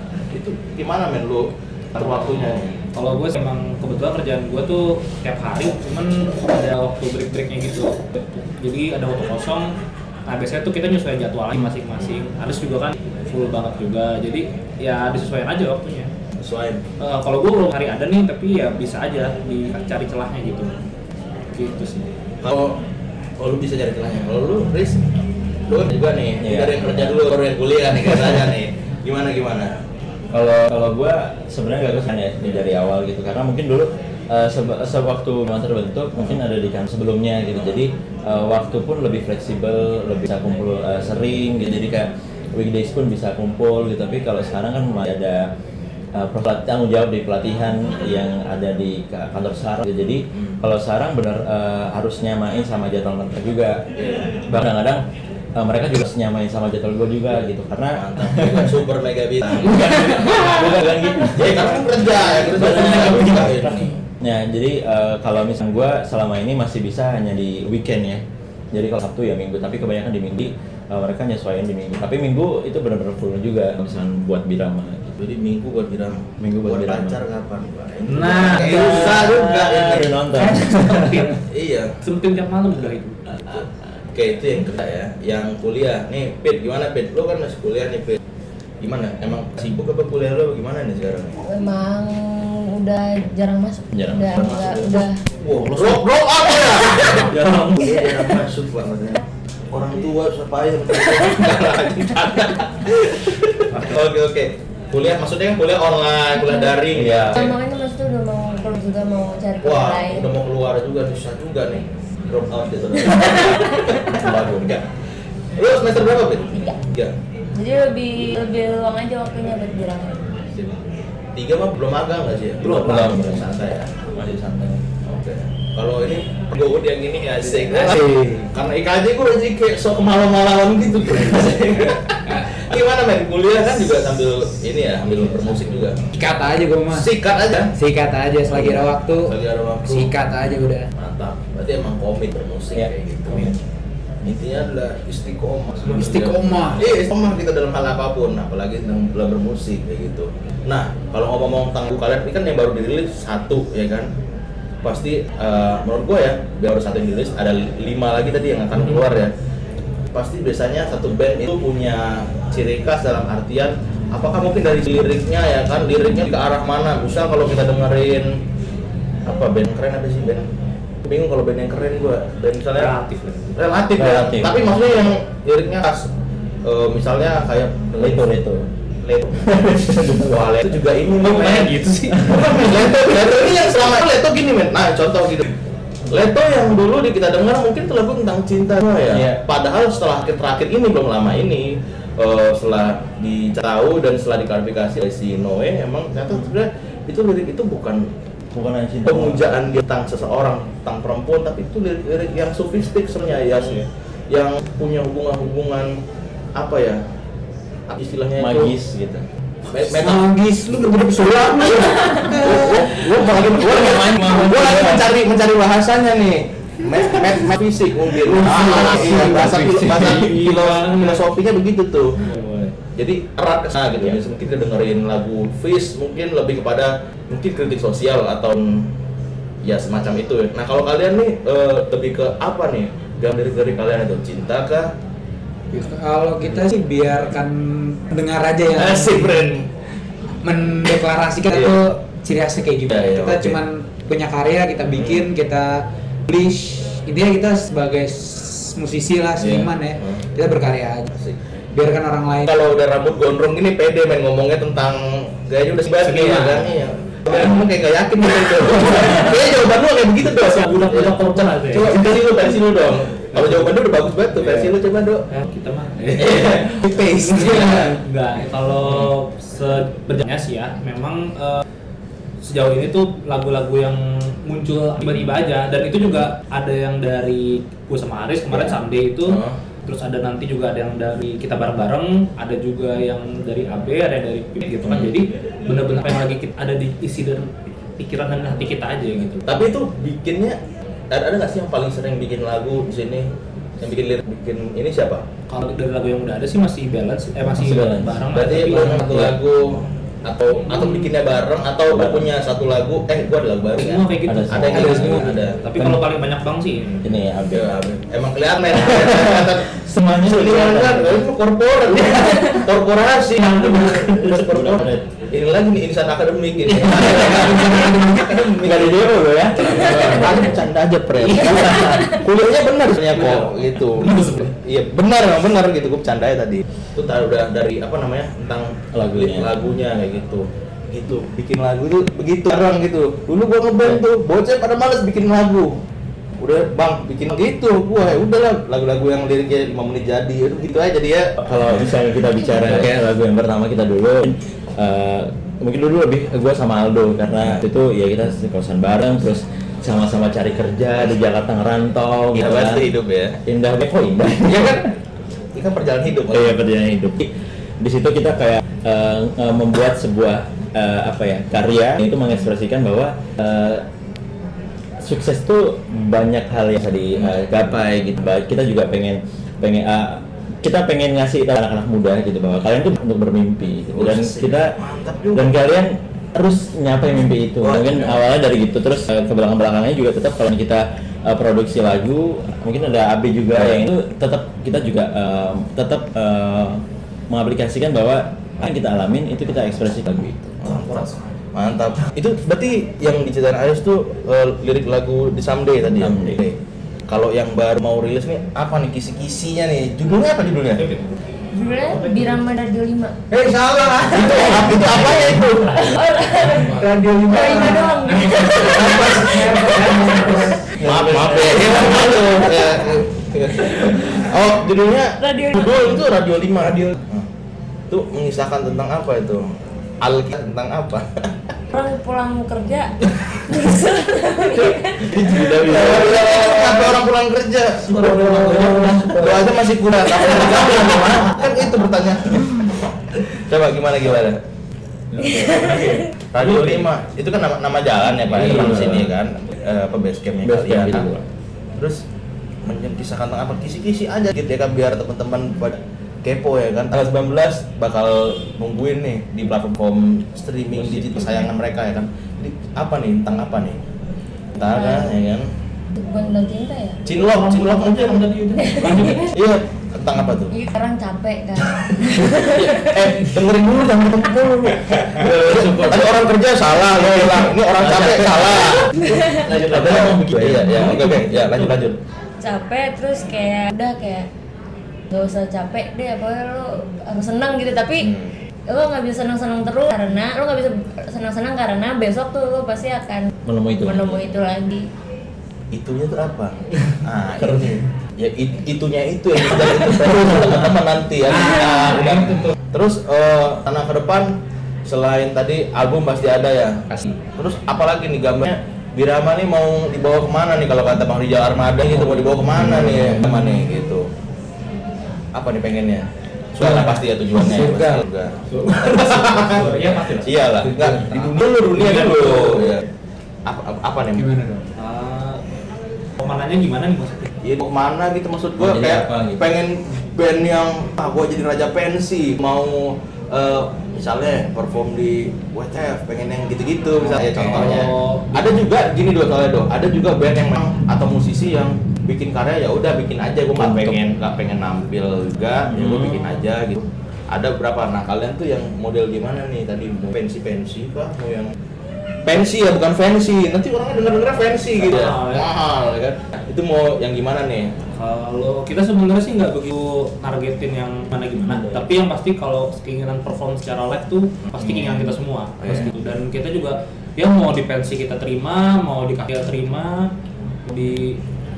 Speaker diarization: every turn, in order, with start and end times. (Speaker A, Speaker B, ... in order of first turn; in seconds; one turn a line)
Speaker A: 0.3-2.8
Speaker B: 2.0-9.7
Speaker B: 10.3-16.1
Speaker A: 16.4-16.8
Speaker B: 17.0-20.7
Speaker B: 21.5-22.1
Speaker A: 22.4-22.8
Speaker A: 23.4-25.0
Speaker A: 25.7-29.8
Speaker C: 26.4-27.2
Speaker C: 30.3-45.5
Speaker C: 46.1-53.9
Speaker C: 54.5-55.0
Speaker C: 55.6-58.8
Speaker A: 58.0-60.6
Speaker C: 59.5-75.2
Speaker B: 60.2-60.7
Speaker A: 61.3-64.0
Speaker B: 62.5-63.9
Speaker A: 75.2-80.1
Speaker C: 76.4-77.2
Speaker B: 78.1-81.4
Speaker C: 78.3-81.3
Speaker A: 81.5-82.0
Speaker B: 82.0-83.2
Speaker A: 83.5-88.2
Speaker A: 88.8-91.4
Speaker D: 91.5-95.2
Speaker C: 93.9-94.5
Speaker A: 94.4-107.5
Speaker B: 95.6-95.9
Speaker C: 97.0-97.9
Speaker B: 103.7-104.0
Speaker D: 106.3-106.8
Speaker C: 106.9-107.5
Speaker D: 107.3-110.3
Speaker A: 109.6-114.9
Speaker D: 113.1-113.5
Speaker C: 114.1-114.7
Speaker A: 115.6-117.1
Speaker D: 117.5-120.4
Speaker A: 120.5-120.8
Speaker A: 121.3-136.0
Speaker B: 122.6-123.4
Speaker C: 122.7-123.5
Speaker C: 124.2-124.7
Speaker E: 128.0-128.3
Speaker E: 136.1-137.1
Speaker A: 136.9-137.7
Speaker E: 137.8-140.9
Speaker A: 138.5-140.1
Speaker A: 140.9-143.6
Speaker A: 144.2-154.1
Speaker B: 145.8-146.1
Speaker E: 145.9-147.0
Speaker A: 154.8-159.3
Speaker A: 160.1-168.4
Speaker A: 169.3-170.5
Speaker A: 171.0-172.9
Speaker B: 172.8-173.6
Speaker A: 173.6-176.1
Speaker C: 173.9-175.1
Speaker A: 176.7-178.3
Speaker C: 178.0-178.7
Speaker A: 179.0-185.5
Speaker C: 179.4-180.6
Speaker B: 181.2-182.4
Speaker C: 182.2-182.5
Speaker A: 186.1-198.1
Speaker C: 189.1-189.4
Speaker C: 198.5-199.6
Speaker A: 199.0-206.0
Speaker B: 203.3-203.9
Speaker A: 206.6-207.0
Speaker A: 207.9-208.7
Speaker C: 208.4-209.2
Speaker A: 209.7-222.2
Speaker E: 209.9-212.9
Speaker C: 213.1-215.1
Speaker B: 218.4-221.2
Speaker C: 218.4-220.1
Speaker B: 222.2-222.7
Speaker A: 223.0-228.9
Speaker A: 229.6-234.9
Speaker E: 235.7-239.6
Speaker A: 238.7-239.7
Speaker E: 240.4-251.1
Speaker A: 241.5-241.8
Speaker A: 242.9-243.6
Speaker A: 245.0-245.2
Speaker A: 249.4-249.7
Speaker A: 251.1-251.4
Speaker E: 251.8-252.6
Speaker A: 252.4-265.2
Speaker B: 256.0-256.7
Speaker B: 260.4-262.0
Speaker B: 263.3-263.7
Speaker B: 264.4-264.7
Speaker B: 265.3-271.6
Speaker A: 266.1-268.0
Speaker B: 272.4-289.5
Speaker A: 278.5-279.6
Speaker A: 284.9-285.1
Speaker A: 289.4-290.6
Speaker A: 291.1-295.2
Speaker B: 295.5-299.2
Speaker C: 297.5-299.4
Speaker A: 298.3-305.6
Speaker C: 301.9-302.3
Speaker B: 303.8-307.1
Speaker C: 304.2-306.0
Speaker E: 304.9-305.2
Speaker C: 307.0-307.8
Speaker A: 307.5-335.8
Speaker C: 308.8-311.3
Speaker C: 312.0-312.4
Speaker C: 313.4-315.1
Speaker C: 316.8-320.6
Speaker B: 317.3-317.9
Speaker B: 319.9-320.2
Speaker B: 321.3-322.0
Speaker B: 323.1-324.5
Speaker C: 328.9-329.6
Speaker A: 336.4-341.7
Speaker C: 341.4-352.9
Speaker A: 342.6-342.9
Speaker A: 352.3-353.4
Speaker C: 353.5-354.9
Speaker A: 354.4-354.9
Speaker A: 355.6-356.6
Speaker C: 356.3-363.9
Speaker C: 365.0-374.8
Speaker A: 367.2-367.5
Speaker A: 373.9-375.6
Speaker C: 375.3-390.9
Speaker A: 377.6-378.2
Speaker A: 390.6-396.6
Speaker C: 395.9-396.4
Speaker A: 397.1-400.8
Speaker B: 400.8-401.2
Speaker D: 401.5-403.2
Speaker B: 401.9-402.4
Speaker E: 403.3-405.2
Speaker D: 404.1-404.8
Speaker A: 404.4-406.0
Speaker B: 404.9-405.9
Speaker D: 405.8-410.5
Speaker E: 406.7-410.9
Speaker A: 408.7-409.3
Speaker B: 409.9-410.5
Speaker A: 410.8-417.3
Speaker C: 410.9-412.3
Speaker D: 415.2-416.0
Speaker A: 417.9-419.5
Speaker A: 420.0-421.3
Speaker D: 421.7-427.0
Speaker C: 425.0-426.4
Speaker A: 425.2-432.6
Speaker B: 427.9-429.2
Speaker C: 428.0-429.4
Speaker A: 433.4-434.4
Speaker C: 435.2-436.8
Speaker A: 435.2-441.1
Speaker D: 435.3-436.0
Speaker B: 436.4-436.9
Speaker C: 438.3-439.1
Speaker B: 438.3-439.0
Speaker C: 440.4-441.2
Speaker A: 442.6-453.8
Speaker C: 450.7-451.5
Speaker A: 454.6-455.5
Speaker D: 454.7-455.2
Speaker D: 456.0-457.0
Speaker A: 457.1-458.3
Speaker B: 457.1-459.3
Speaker D: 458.6-459.3
Speaker A: 459.0-460.5
Speaker D: 460.5-462.9
Speaker A: 462.4-472.0
Speaker C: 465.2-471.2
Speaker D: 469.0-469.5
Speaker B: 470.7-471.9
Speaker D: 472.4-474.3
Speaker D: 475.1-478.1
Speaker D: 478.7-484.9
Speaker C: 483.5-484.3
Speaker A: 485.7-494.3
Speaker C: 487.4-487.8
Speaker E: 491.5-492.4
Speaker A: 494.9-504.1
Speaker B: 502.0-502.3
Speaker C: 502.0-503.4
Speaker A: 505.3-512.8
Speaker E: 506.6-508.0
Speaker B: 508.5-510.4
Speaker E: 510.8-511.2
Speaker B: 511.7-512.8
Speaker A: 513.5-514.3
Speaker E: 514.2-514.6
Speaker B: 514.8-515.4
Speaker B: 516.2-517.3
Speaker A: 517.4-541.5
Speaker C: 518.6-519.5
Speaker B: 527.2-528.4
Speaker C: 533.6-534.0
Speaker C: 535.7-536.3
Speaker A: 542.2-547.7
Speaker B: 544.8-545.5
Speaker B: 548.0-560.1
Speaker C: 551.5-551.9
Speaker A: 554.5-555.0
Speaker A: 555.6-555.9
Speaker B: 560.6-561.2